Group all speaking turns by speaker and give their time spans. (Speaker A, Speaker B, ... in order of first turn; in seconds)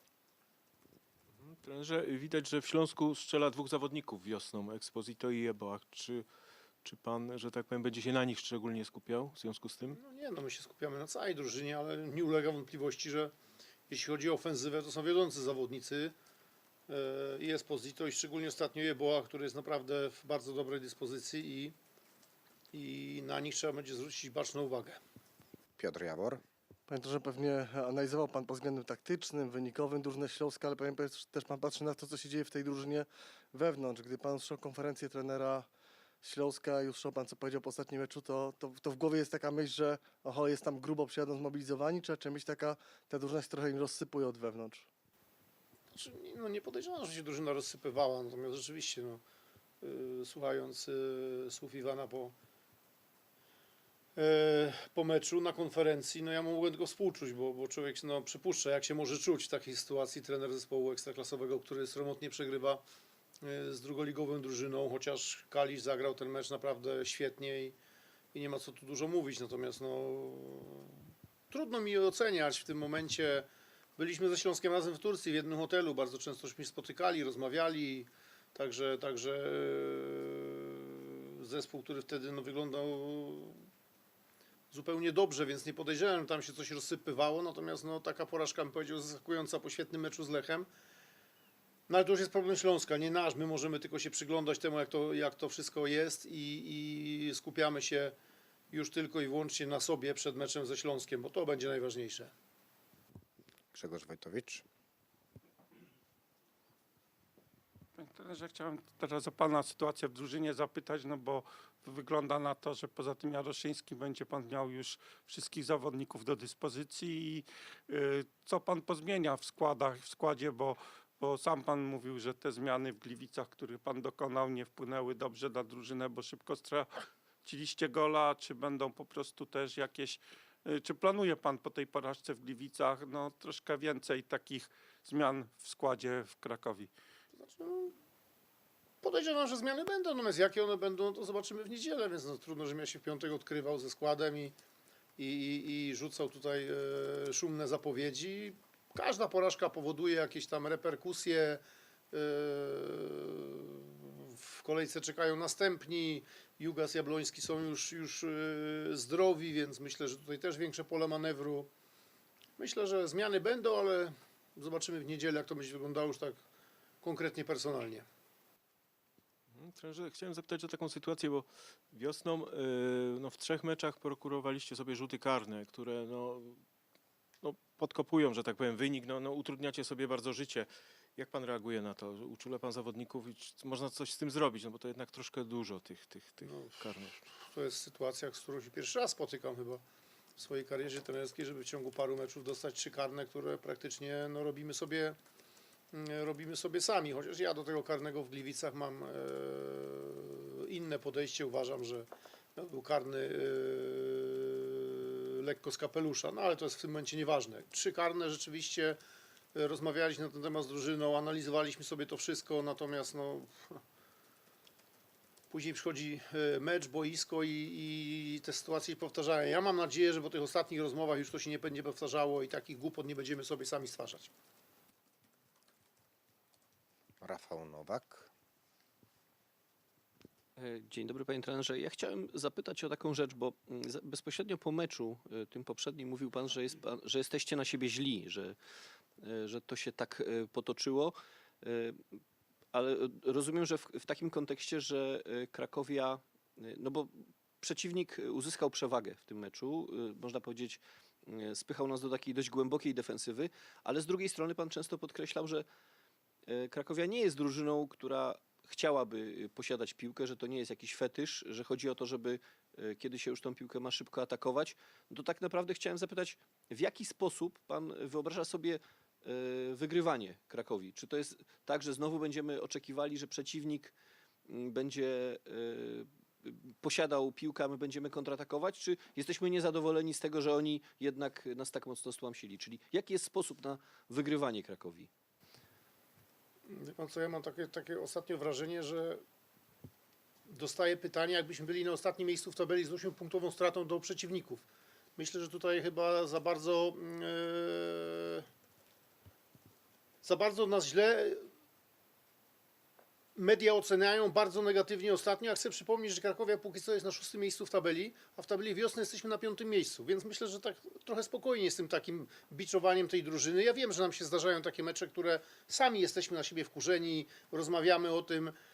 Speaker A: 1.4-6.3, 6.8-10.0, 169.6-176.6, 177.4-187.2
Speaker B: 9.9-13.3, 13.9-16.1, 16.9-21.8, 22.7-25.0, 45.9-49.2, 49.8-52.4, 54.2-62.8, 63.4-67.8, 68.3-71.0, 71.5-83.6, 84.7-90.7, 91.9-98.2, 98.7-102.3, 137.4-137.9, 139.0-144.6, 145.2-161.7, 162.6-166.4, 167.0-168.1, 186.5-189.8, 190.4-195.2, 195.9-209.0, 209.6-213.8, 215.5-224.3, 286.7-289.2, 290.5-294.7, 295.2-298.5, 300.2-301.4, 303.4-318.6
Speaker C: 25.8-26.4, 103.7-104.6, 227.2-228.3
Speaker D: 26.9-35.7, 36.2-44.9
Speaker E: 108.0-126.9, 127.4-136.9
Speaker F: 230.6-238.6, 239.2-242.0, 242.7-255.7, 256.5-273.9, 274.5-285.1